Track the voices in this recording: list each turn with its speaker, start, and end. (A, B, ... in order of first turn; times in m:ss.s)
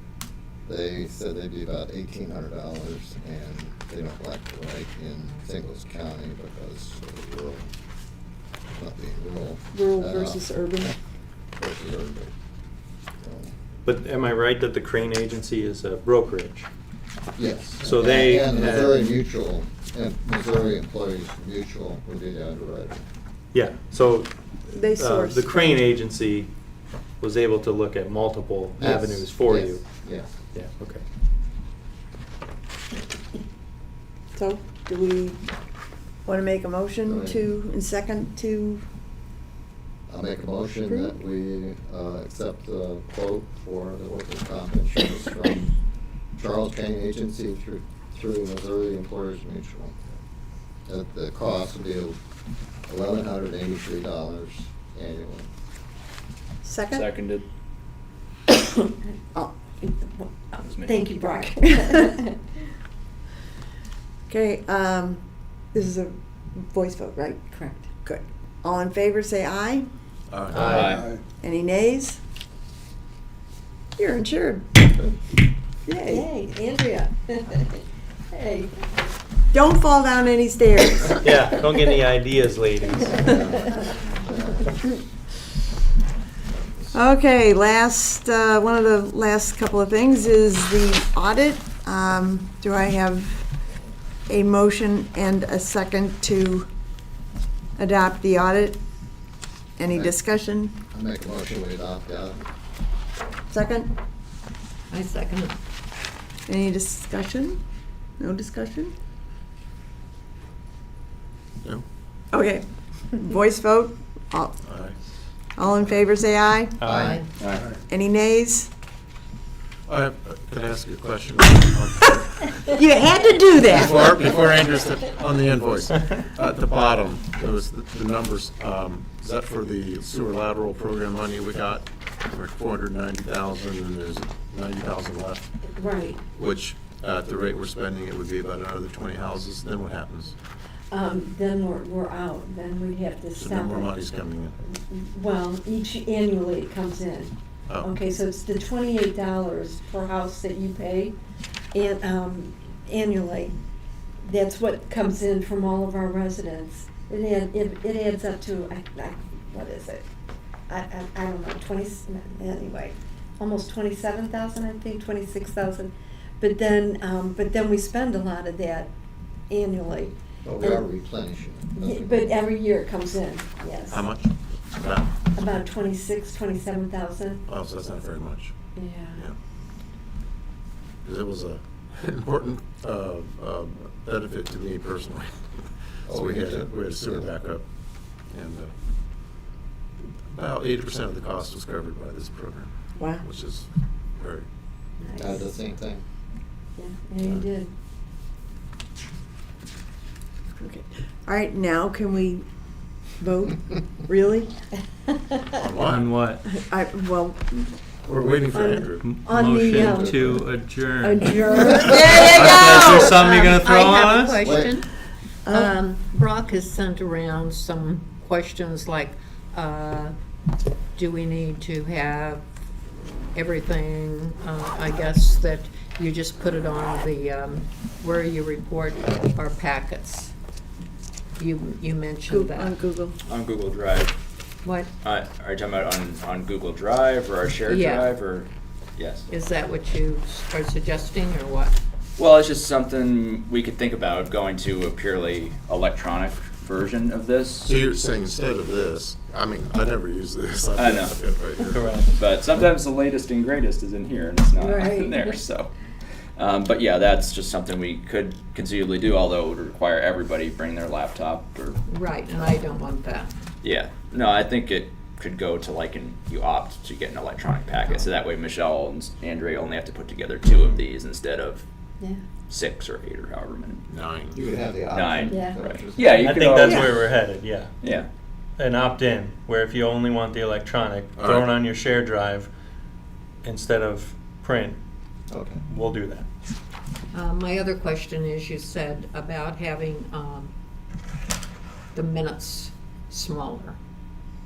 0:00.7-0:07.7 A
0:08.7-0:10.9 A
0:09.7-0:10.9 B
0:11.6-0:12.3 A
0:13.2-0:13.5 A
0:13.8-0:16.7 C
0:17.4-0:23.0 A
0:17.8-0:19.0 C
0:23.5-0:26.5 C
0:24.7-0:25.8 B
0:27.2-0:29.8 C
0:28.8-0:30.3 A
0:30.5-0:31.0 C
0:34.4-0:35.4 B
0:36.2-0:38.8 B
0:37.0-0:37.4 A
0:40.1-0:45.8 A
0:40.8-0:41.2 B
0:46.4-0:50.0 A
0:50.9-0:52.2 A
0:52.9-0:55.5 A
0:56.6-0:57.1 B
0:56.9-0:57.4 D
0:59.8-1:02.4 E
1:00.6-1:01.1 D
1:04.3-1:09.9 B
1:07.5-1:07.9 E
1:10.3-1:11.0 F
1:10.6-1:11.0 C
1:10.6-1:11.1 D
1:10.6-1:12.2 B
1:14.0-1:14.8 B
1:15.9-1:16.3 B
1:16.1-1:18.7 E
1:19.5-1:21.3 B
1:21.2-1:23.2 C
1:23.2-1:24.6 A
1:26.9-1:33.5 B
1:34.3-1:36.7 B
1:37.8-1:38.8 B
1:39.8-1:40.8 B
1:40.9-1:42.5 A
1:43.5-1:44.0 B
1:44.9-1:45.6 G
1:46.5-1:47.6 B
1:48.2-1:48.9 B
1:52.3-1:54.5 B
1:54.6-1:55.0 F
1:55.6-1:56.9 B
1:56.8-1:57.1 C
1:56.9-1:57.1 F
1:56.9-1:57.2 A
1:56.9-1:57.3 G
1:57.4-1:57.7 D
1:57.9-1:58.7 B
1:59.9-2:02.6 F
2:02.7-2:04.4 B
2:03.7-2:15.5 F
2:15.6-2:16.2 E
2:16.4-2:20.3 F
2:20.9-2:24.0 E
2:23.4-2:24.6 F
2:24.6-2:31.2 E
2:31.7-2:33.6 E
2:34.2-2:40.0 E
2:40.7-2:48.9 E
2:49.5-2:50.8 E
2:50.4-2:52.2 A
2:51.8-2:54.0 E
2:53.9-2:55.1 F
2:55.4-2:57.4 E
2:57.5-2:58.5 F
2:58.8-2:59.3 E
3:01.0-3:05.4 F
3:06.1-3:07.2 A
3:06.1-3:07.6 F
3:08.3-3:08.7 F
3:10.3-3:14.5 F
3:13.0-3:13.3 B
3:15.0-3:15.5 E
3:15.2-3:16.0 A
3:16.8-3:17.7 E
3:17.2-3:17.5 F
3:20.6-3:22.5 B
3:23.2-3:24.5 B
3:25.5-3:26.0 F
3:25.8-3:26.4 C
3:26.4-3:27.7 B
3:28.1-3:29.1 F
3:28.5-3:30.4 E
3:29.0-3:31.4 C
3:30.1-3:30.4 A
3:31.0-3:32.6 E
3:31.8-3:33.3 B
3:32.2-3:34.5 C
3:32.4-3:34.9 G
3:34.3-3:34.8 A
3:35.5-3:35.7 B
3:35.5-3:40.1 G
3:41.0-3:42.4 G
3:43.4-3:50.3 G
3:51.4-3:52.7 G
3:52.3-3:53.2 B
3:53.2-3:54.1 D
3:54.6-3:54.9 G
3:55.0-3:59.3 D
3:57.7-3:58.2 G
3:59.3-4:01.8 G
4:02.2-4:07.8 D
4:07.6-4:12.0 F
4:10.8-4:11.2 D
4:11.7-4:12.2 C
4:12.2-4:15.7 D
4:14.6-4:15.2 E
4:16.4-4:21.8 D
4:21.9-4:23.3 G
4:23.6-4:31.6 D
4:32.5-4:33.8 D
4:33.9-4:34.4 F
4:34.3-4:36.2 A
4:34.9-4:37.1 D
4:35.3-4:35.6 E
4:36.1-4:37.7 C
4:37.8-4:38.1 D
4:38.6-4:42.5 C
4:41.2-4:41.6 F
4:43.4-4:44.8 C
4:45.3-4:45.6 A
4:45.7-4:46.3 C
4:47.1-4:50.5 G
4:51.9-4:53.8 G